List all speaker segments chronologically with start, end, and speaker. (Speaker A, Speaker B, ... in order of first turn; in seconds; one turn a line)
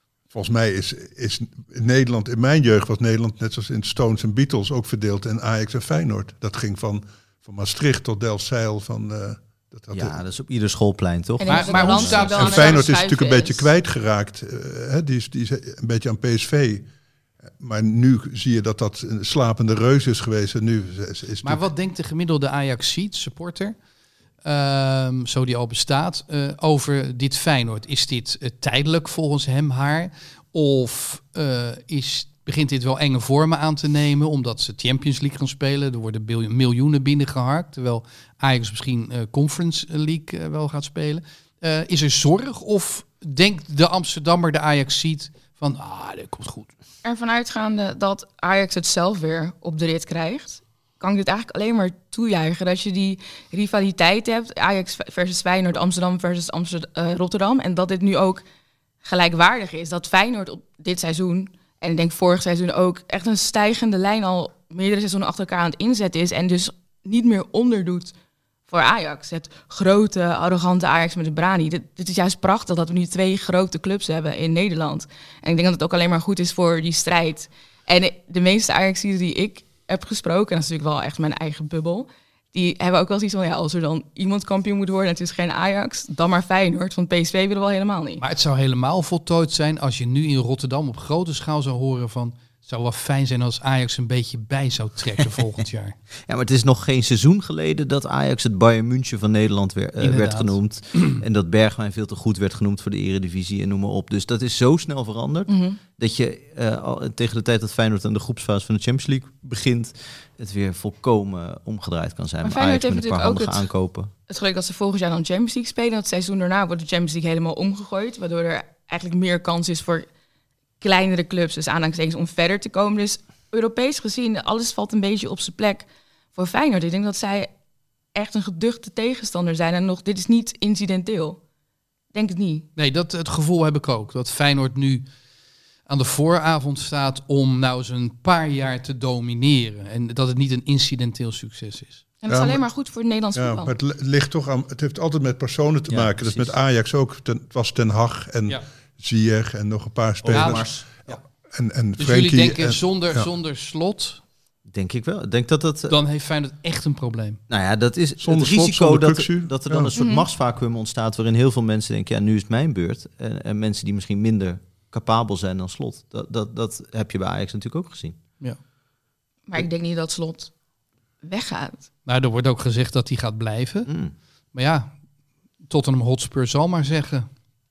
Speaker A: 0.3-10.2
Speaker B: 9.9-12.3
Speaker C: 11.4-13.7
Speaker D: 11.5-12.8
Speaker A: 12.3-16.9
Speaker A: 17.6-21.6
Speaker D: 21.4-23.8
Speaker D: 24.4-46.7
Speaker C: 47.0-58.4
Speaker C: 59.0-68.1
Speaker C: 68.7-88.2
Speaker D: 88.2-96.0
Speaker B: 96.3-114.1
Speaker D: 100.0-101.2
Speaker C: 105.5-105.8
Speaker C: 112.4-113.7
Speaker C: 114.3-120.1
Speaker C: 120.8-127.5
Speaker C: 128.1-131.4
Speaker C: 132.1-132.7
Speaker D: 132.8-135.0
Speaker D: 135.9-142.1
Speaker C: 142.2-143.7
Speaker A: 142.3-142.6
Speaker A: 143.3-153.3
Speaker B: 145.9-146.6
Speaker B: 150.2-150.8
Speaker D: 150.3-151.2
Speaker D: 152.0-154.2
Speaker B: 154.7-156.0
Speaker D: 155.9-157.4
Speaker B: 157.5-168.2
Speaker A: 158.2-159.9
Speaker C: 160.0-160.2
Speaker C: 169.5-170.5
Speaker C: 171.2-171.9
Speaker D: 172.1-173.9
Speaker B: 173.9-174.1
Speaker D: 174.5-174.9
Speaker D: 175.7-177.3